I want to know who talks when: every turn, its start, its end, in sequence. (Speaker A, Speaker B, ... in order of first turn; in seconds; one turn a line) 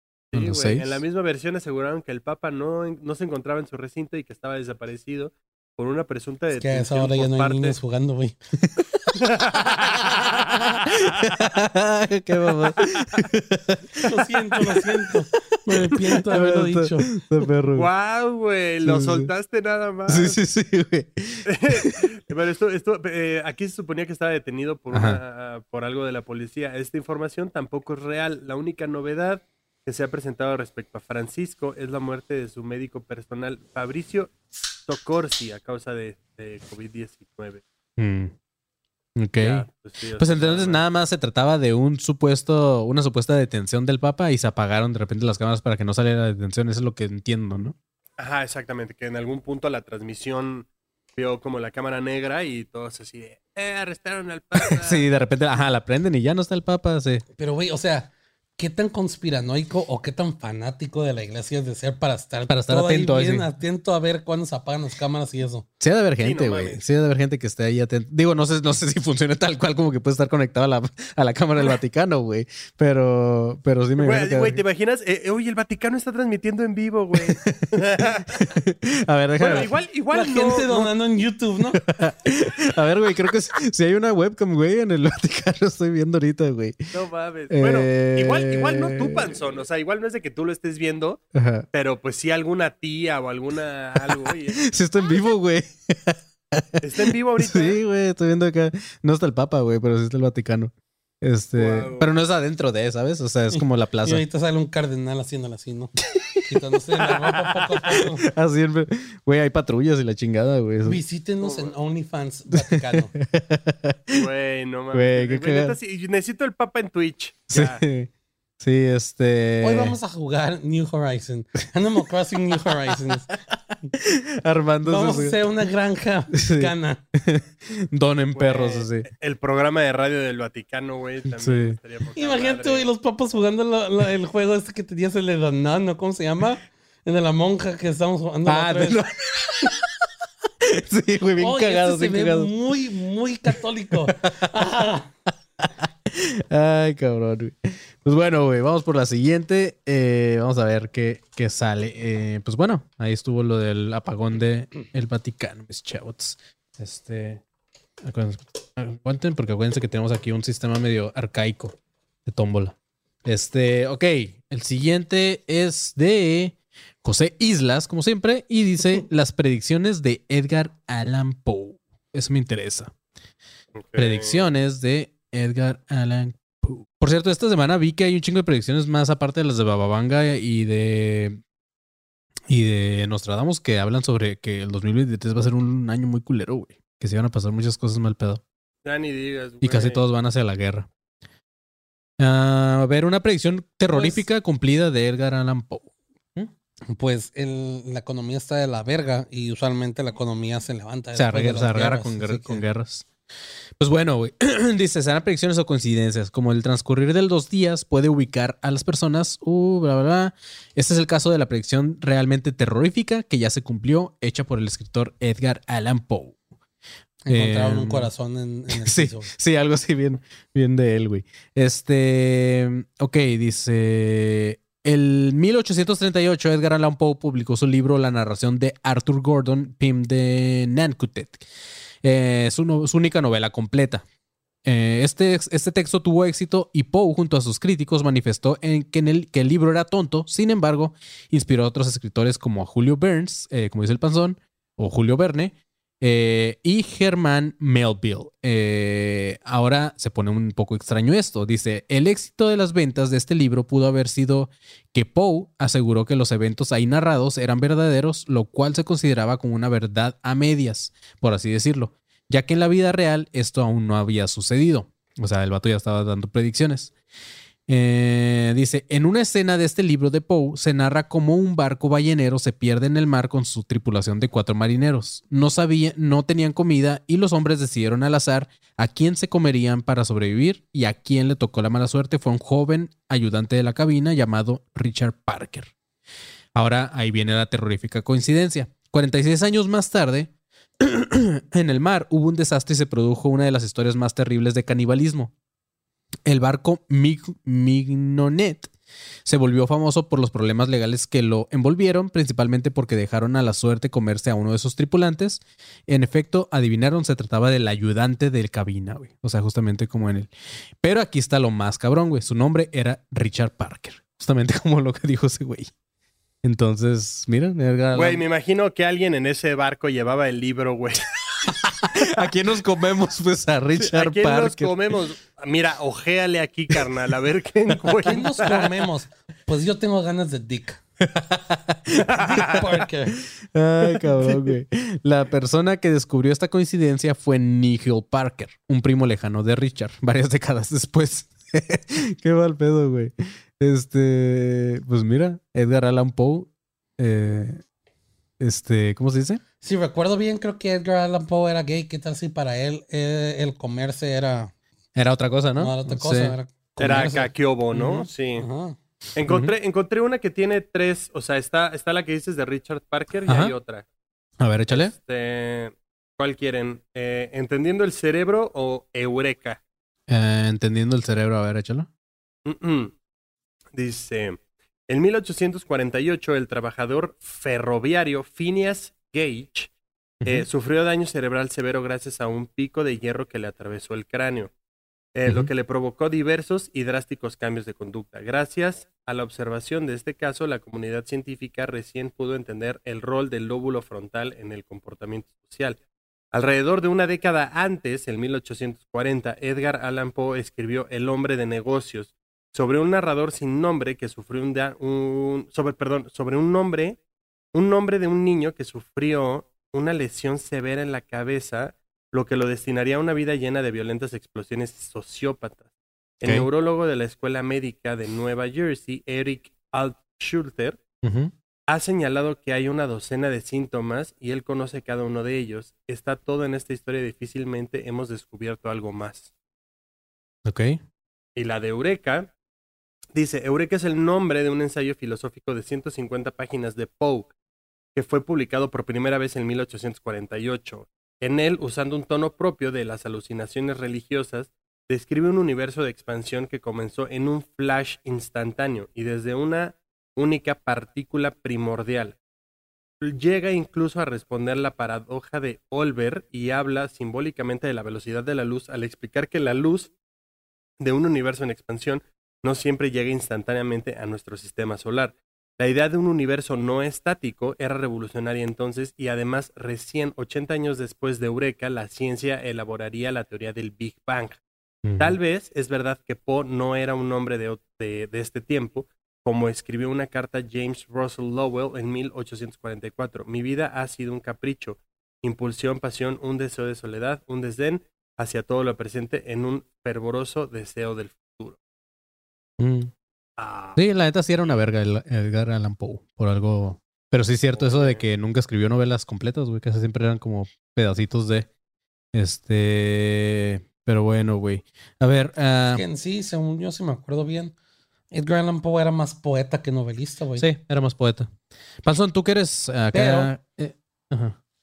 Speaker A: 0.3-7.8
Speaker B: 0.3-1.0
Speaker C: 6.5-8.3
Speaker B: 8.6-14.1
Speaker A: 9.2-11.3
Speaker A: 12.5-13.2
Speaker C: 14.1-17.1
Speaker B: 15.7-17.9
Speaker A: 17.7-20.4
Speaker B: 18.8-19.3
Speaker B: 20.1-22.0
Speaker A: 21.5-34.3
Speaker B: 24.9-25.2
Speaker A: 34.9-37.6
Speaker B: 38.0-38.3
Speaker B: 39.1-39.6
Speaker A: 39.4-40.8
Speaker B: 40.2-47.8
Speaker A: 48.2-55.0
Speaker B: 54.7-57.2
Speaker C: 57.4-65.7
Speaker B: 62.5-63.5
Speaker B: 65.8-74.6
Speaker A: 66.2-66.8
Speaker A: 74.0-78.4
Speaker B: 77.3-77.7
Speaker B: 78.3-79.7
Speaker A: 79.4-80.9
Speaker C: 80.1-81.8
Speaker B: 81.9-86.8
Speaker A: 86.9-91.2
Speaker B: 87.5-89.4
Speaker B: 91.3-91.7
Speaker A: 91.7-94.6
Speaker B: 94.1-104.2
Speaker A: 96.8-97.8
Speaker A: 101.5-102.1
Speaker C: 103.5-108.2
Speaker B: 106.0-106.5
Speaker B: 108.2-111.0
Speaker C: 110.8-113.1
Speaker A: 111.4-111.7
Speaker B: 112.7-114.2
Speaker A: 114.1-117.8
Speaker B: 114.9-115.8
Speaker B: 117.5-120.0
Speaker C: 119.6-123.3
Speaker B: 123.9-125.4
Speaker C: 124.8-127.0
Speaker B: 126.3-129.1
Speaker A: 128.3-132.9
Speaker B: 131.4-131.8
Speaker C: 132.2-139.0
Speaker B: 138.4-140.0
Speaker B: 140.6-142.5
Speaker C: 141.4-145.1
Speaker B: 144.1-144.3
Speaker B: 145.6-157.4
Speaker B: 158.0-172.9
Speaker A: 173.8-174.4
Speaker B: 173.9-181.4
Speaker B: 182.5-188.4
Speaker A: 188.8-190.0
Speaker B: 189.6-190.9
Speaker B: 192.2-196.5
Speaker C: 196.9-202.6
Speaker B: 201.1-203.1
Speaker B: 203.8-216.4
Speaker C: 217.2-219.3
Speaker B: 217.3-218.1
Speaker B: 218.7-231.4
Speaker B: 232.0-234.0
Speaker B: 234.6-266.9
Speaker B: 267.7-285.7
Speaker B: 286.5-295.3
Speaker B: 296.2-298.7
Speaker B: 299.2-310.3
Speaker B: 310.8-315.7
Speaker B: 316.4-318.2
Speaker A: 317.9-321.1
Speaker B: 321.6-325.0
Speaker A: 323.8-328.7
Speaker C: 328.1-330.8
Speaker B: 331.0-332.2
Speaker A: 332.1-332.4
Speaker C: 332.2-333.2
Speaker B: 333.4-347.6
Speaker B: 348.4-349.4
Speaker C: 349.6-354.5
Speaker B: 354.9-356.3
Speaker C: 355.6-357.3
Speaker A: 356.8-358.4
Speaker B: 357.8-358.0
Speaker C: 358.4-358.8
Speaker A: 359.1-363.8
Speaker B: 359.3-359.5
Speaker B: 363.3-363.5
Speaker B: 364.4-364.9
Speaker A: 364.7-369.6
Speaker B: 370.1-371.9
Speaker A: 372.4-372.9
Speaker A: 373.7-379.7
Speaker B: 380.2-380.5
Speaker A: 380.2-384.5
Speaker A: 385.1-395.8
Speaker A: 396.3-407.0
Speaker A: 407.5-415.6
Speaker A: 416.2-420.8
Speaker B: 421.0-421.3
Speaker A: 421.7-429.3
Speaker B: 430.4-430.8
Speaker A: 431.4-432.3
Speaker A: 433.1-437.3
Speaker A: 437.9-452.1
Speaker A: 453.0-459.9
Speaker A: 460.8-474.4
Speaker B: 474.8-475.1
Speaker A: 475.0-491.6
Speaker B: 492.6-492.9
Speaker A: 493.4-493.8
Speaker B: 493.8-501.5
Speaker A: 497.5-498.0
Speaker B: 502.1-505.8
Speaker C: 505.7-507.5
Speaker C: 508.1-510.5
Speaker B: 510.4-511.3
Speaker B: 511.8-514.4
Speaker C: 512.9-513.3